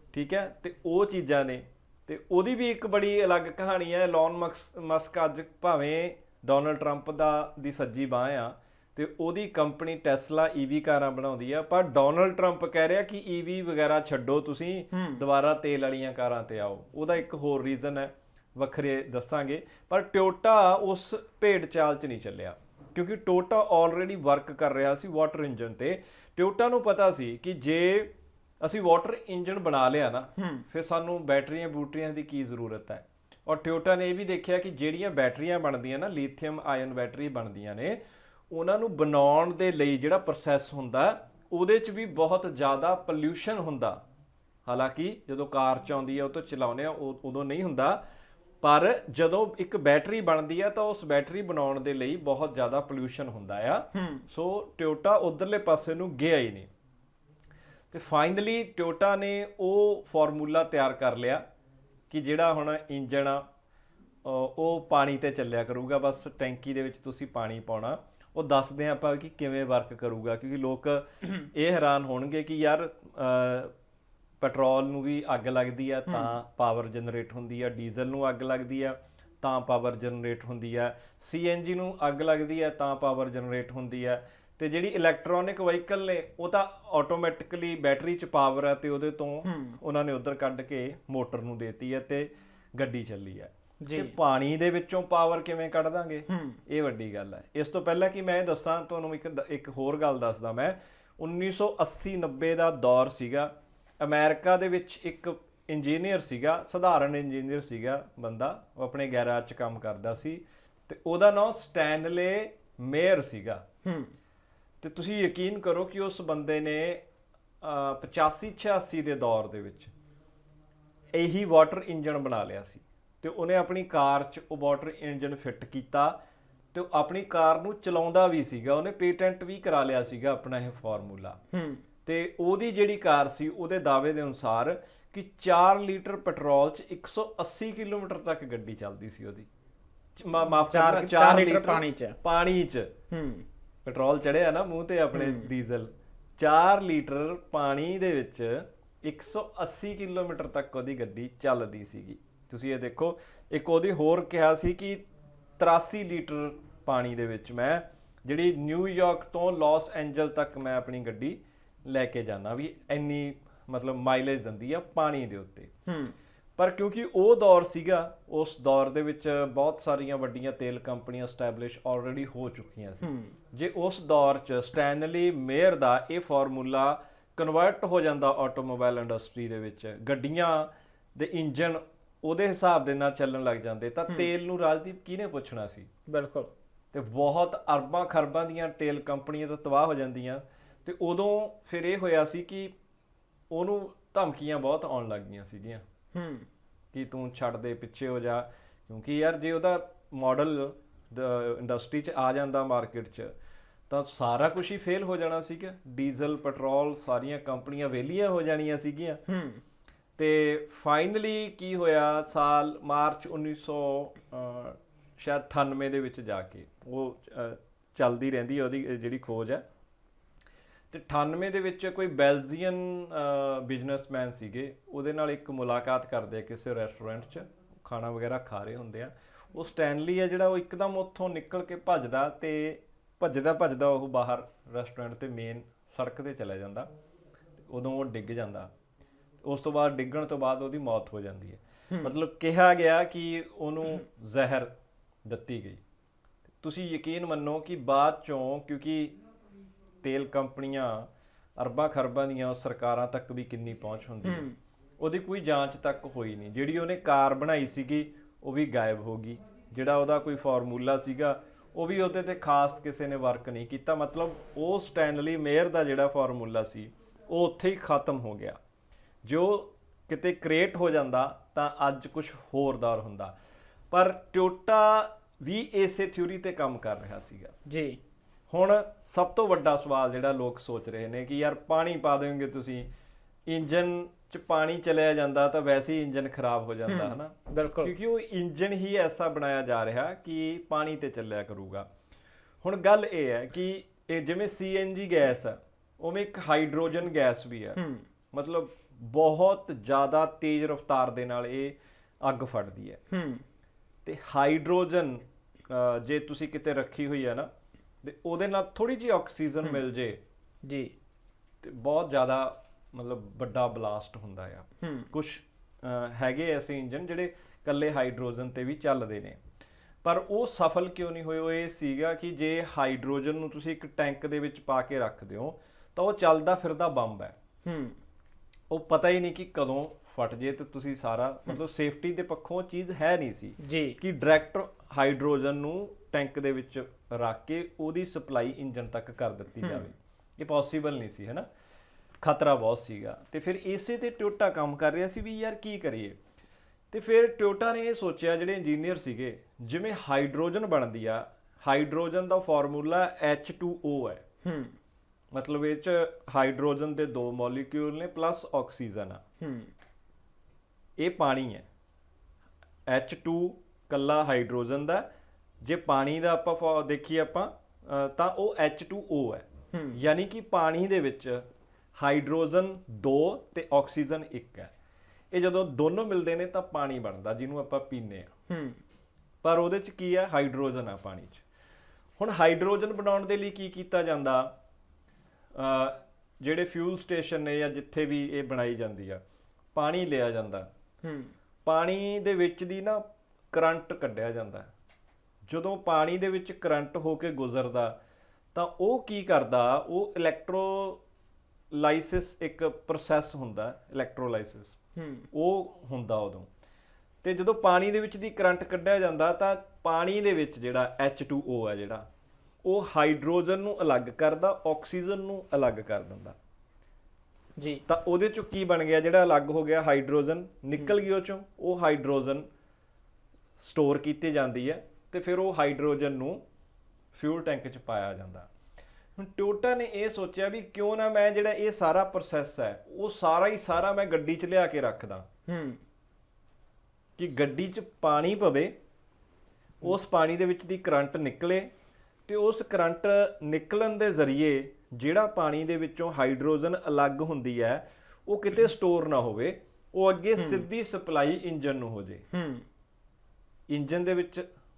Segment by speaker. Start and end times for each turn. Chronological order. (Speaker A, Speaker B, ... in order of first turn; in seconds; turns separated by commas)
Speaker A: 0.1-38.0, Speaker B: 14.9-15.2, Speaker B: 30.4-30.6, Speaker A: 38.5-44.0, Speaker A: 44.6-48.0, Speaker A: 48.6-56.7, Speaker B: 53.9-54.2, Speaker A: 57.9-61.4, Speaker A: 62.1-63.4, Speaker A: 64.2-73.7, Speaker A: 74.4-113.6, Speaker B: 89.4-89.8, Speaker B: 93.8-94.1, Speaker B: 96.3-96.6, Speaker B: 113.8-114.1, Speaker A: 114.8-117.0, Speaker A: 117.6-119.9, Speaker A: 121.1-126.2, Speaker A: 126.7-131.4, Speaker B: 131.5-131.8, Speaker A: 132.1-139.5, Speaker A: 140.2-142.9, Speaker B: 140.6-142.2, Speaker B: 143.1-143.4, Speaker A: 143.8-155.0, Speaker B: 145.1-145.5, Speaker A: 155.6-165.7, Speaker B: 165.9-166.1, Speaker A: 166.6-185.9, Speaker B: 173.0-173.3, Speaker B: 186.1-186.5, Speaker A: 186.9-192.7, Speaker A: 193.5-195.8, Speaker B: 196.1-196.5, Speaker A: 196.9-203.3, Speaker A: 203.9-209.2, Speaker B: 209.3-209.6, Speaker A: 210.2-219.6, Speaker A: 220.9-236.9, Speaker A: 237.7-238.7, Speaker A: 239.4-244.7, Speaker A: 245.2-245.8, Speaker A: 246.6-249.2, Speaker A: 250.0-254.5, Speaker B: 254.2-254.6, Speaker A: 255.0-268.6, Speaker A: 269.2-273.3, Speaker A: 273.9-277.6, Speaker B: 277.7-278.0, Speaker A: 278.5-282.9, Speaker A: 283.5-291.9, Speaker B: 286.9-287.9, Speaker A: 292.6-297.8, Speaker B: 297.8-298.1, Speaker A: 298.3-303.0, Speaker B: 303.1-303.4, Speaker A: 304.1-307.5, Speaker A: 308.0-310.2, Speaker B: 310.6-310.9, Speaker A: 311.6-319.4, Speaker B: 314.8-315.1, Speaker A: 320.0-327.4, Speaker B: 327.6-328.0, Speaker A: 328.7-341.5, Speaker B: 333.6-334.0, Speaker A: 342.2-346.2, Speaker A: 346.9-354.2, Speaker B: 354.4-354.8, Speaker A: 355.3-359.2, Speaker B: 359.4-359.7, Speaker A: 361.0-361.7, Speaker A: 362.9-365.1, Speaker A: 365.6-374.7, Speaker B: 369.7-370.0, Speaker A: 375.3-378.3, Speaker B: 378.5-378.8, Speaker A: 379.4-381.4, Speaker A: 382.2-384.5, Speaker A: 385.6-389.2, Speaker A: 389.7-390.7, Speaker B: 391.0-391.3, Speaker A: 391.6-394.7, Speaker A: 395.5-398.0, Speaker A: 398.5-401.0, Speaker A: 401.7-404.8, Speaker B: 404.9-405.3, Speaker A: 405.3-406.5, Speaker A: 407.2-412.1, Speaker A: 412.6-416.4, Speaker B: 417.6-417.8, Speaker A: 417.9-422.5, Speaker A: 423.6-426.4, Speaker A: 427.1-428.5, Speaker A: 429.2-435.3, Speaker B: 435.5-435.8, Speaker A: 437.2-438.7, Speaker A: 439.8-441.7, Speaker A: 442.3-452.3, Speaker B: 450.4-450.7, Speaker B: 452.3-452.7, Speaker A: 453.7-454.4